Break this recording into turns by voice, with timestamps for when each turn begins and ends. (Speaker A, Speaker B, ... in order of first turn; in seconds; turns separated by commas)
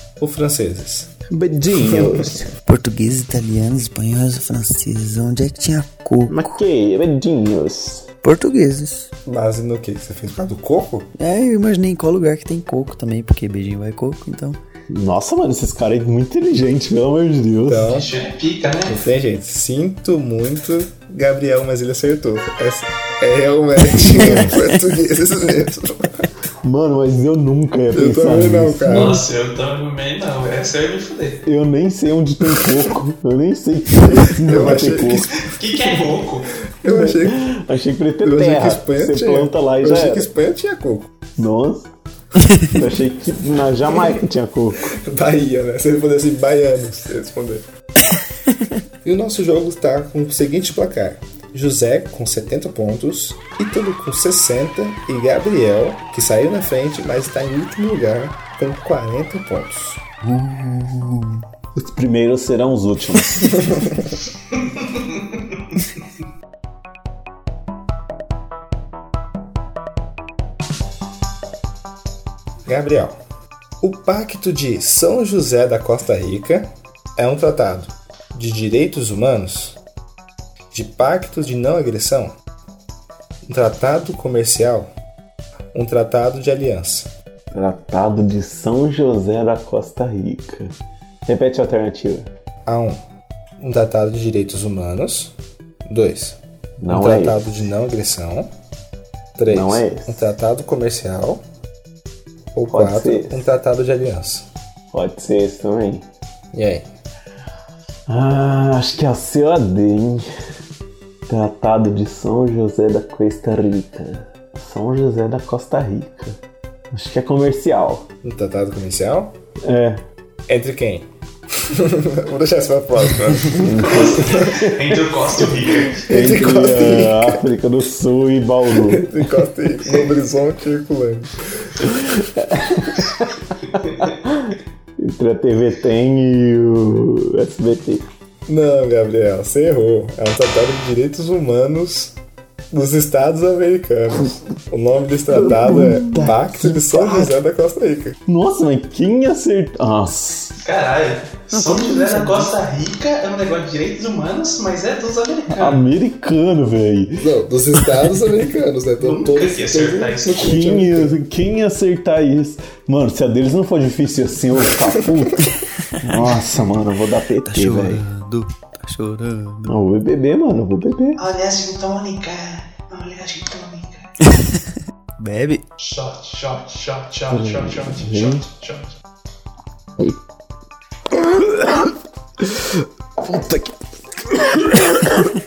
Speaker A: 0.2-1.1, Speaker B: 1.3-2.5, Speaker A: 1.7-2.3, Speaker C: 2.7-6.6, Speaker B: 6.3-8.1, Speaker C: 8.2-9.1, Speaker A: 9.3-11.1, Speaker C: 11.2-14.6, Speaker B: 14.9-17.9, Speaker A: 17.7-18.1, Speaker D: 17.8-19.1, Speaker A: 18.9-26.3, Speaker B: 24.1-24.6, Speaker B: 26.6-29.2, Speaker A: 27.9-29.2, Speaker D: 28.9-31.4, Speaker B: 31.5-35.3, Speaker A: 34.1-36.1, Speaker D: 35.4-36.5, Speaker A: 36.7-37.5, Speaker B: 36.8-40.3, Speaker A: 38.2-41.1, Speaker B: 41.4-41.9, Speaker B: 42.6-44.9, Speaker A: 44.9-47.6, Speaker A: 49.0-60.0, Speaker C: 60.2-61.4, Speaker B: 61.8-63.6, Speaker D: 64.8-65.2, Speaker A: 72.7-73.2, Speaker A: 73.8-79.8, Speaker A: 80.7-82.4, Speaker A: 83.5-84.9, Speaker A: 85.7-87.1, Speaker B: 87.5-90.7, Speaker B: 91.3-92.3, Speaker A: 92.7-93.0, Speaker A: 93.6-95.3, Speaker A: 95.9-98.5, Speaker B: 96.8-97.4, Speaker A: 99.4-101.4, Speaker B: 99.5-100.2, Speaker A: 102.5-104.5, Speaker B: 102.7-103.5, Speaker B: 104.9-106.0, Speaker A: 106.5-106.9, Speaker B: 108.1-110.3, Speaker B: 111.3-116.4, Speaker B: 116.9-118.1, Speaker A: 118.2-119.3, Speaker B: 119.6-120.0, Speaker A: 120.5-124.5, Speaker B: 123.5-124.9, Speaker D: 123.8-126.1, Speaker B: 126.1-129.1, Speaker A: 126.1-127.4, Speaker A: 128.8-131.9, Speaker B: 131.8-138.1, Speaker A: 138.5-142.2, Speaker A: 142.7-148.2, Speaker B: 145.3-147.3, Speaker B: 148.3-150.5, Speaker D: 150.6-155.8, Speaker C: 151.5-152.5, Speaker B: 155.6-157.3, Speaker A: 157.2-161.1, Speaker D: 159.0-160.7, Speaker B: 160.3-168.0, Speaker A: 164.9-165.2, Speaker C: 166.0-166.4, Speaker C: 167.4-169.8, Speaker B: 169.7-171.2, Speaker D: 171.2-174.2, Speaker C: 175.2-175.6, Speaker D: 175.8-178.9, Speaker B: 177.3-178.4, Speaker B: 181.1-185.3